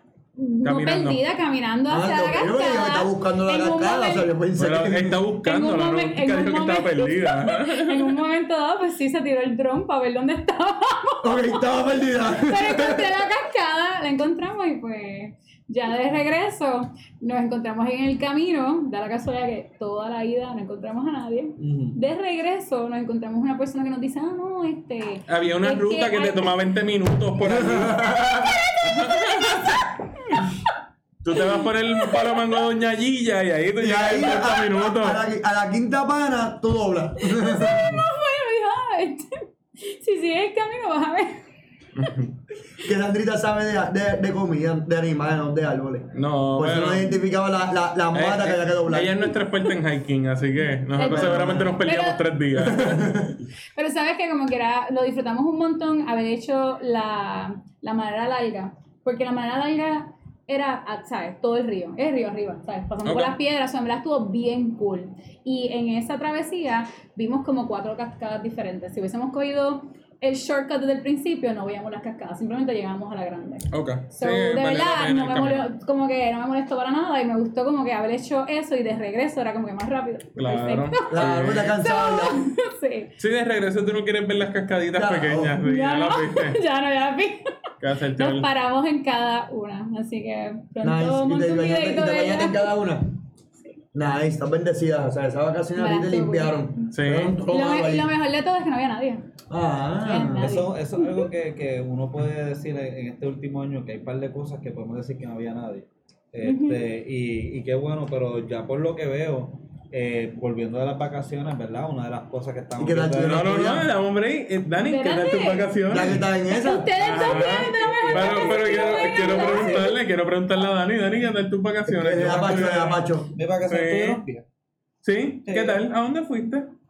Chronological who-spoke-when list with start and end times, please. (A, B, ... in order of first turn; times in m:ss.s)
0:00.4-0:04.3 A
0:00.6-0:01.2 B
0:01.9-0:05.2 C
0:04.6-0:08.2 B
0:05.4-0:11.7 A
0:11.2-0:13.1 C
0:12.2-0:26.6 A
0:21.6-0:22.0 D
0:25.3-0:28.2 B
0:27.4-0:28.6 C
0:28.3-0:30.7 A
0:28.8-0:29.8 B
0:31.2-0:35.2 B
0:31.4-0:32.6 A
0:33.8-0:38.0 C
0:37.2-0:41.4 A
0:41.9-0:42.3 B
0:42.8-0:49.3 C
0:46.1-0:47.2 B
0:48.1-0:53.3 B
0:50.9-0:52.2 A
0:51.0-0:51.8 C
0:52.5-0:53.4 C
0:53.7-1:23.1 A
1:03.0-1:03.4 B
1:13.7-1:15.7 B
1:20.4-1:21.8 B
1:21.1-1:22.4 C
1:23.2-1:26.6 B
1:24.9-1:25.6 C
1:25.6-1:27.5 A
1:27.8-1:28.5 B
1:28.2-1:32.8 A
1:30.8-1:33.1 C
1:33.9-1:38.1 C
1:35.8-1:36.7 A
1:36.9-1:37.4 B
1:37.5-1:39.2 A
1:39.5-1:40.6 C
1:40.0-1:41.2 A
1:40.3-1:53.4 D
1:46.4-1:46.8 A
1:52.8-1:53.9 C
1:53.2-1:56.2 B
1:54.8-1:55.7 A
1:55.9-1:56.9 C
1:56.5-2:00.0 A
1:57.0-2:03.0 B
1:57.3-1:59.9 D
2:01.9-2:03.3 C
2:02.2-2:04.4 D
2:03.6-2:04.2 B
2:05.0-2:06.7 B
2:05.4-2:05.8 D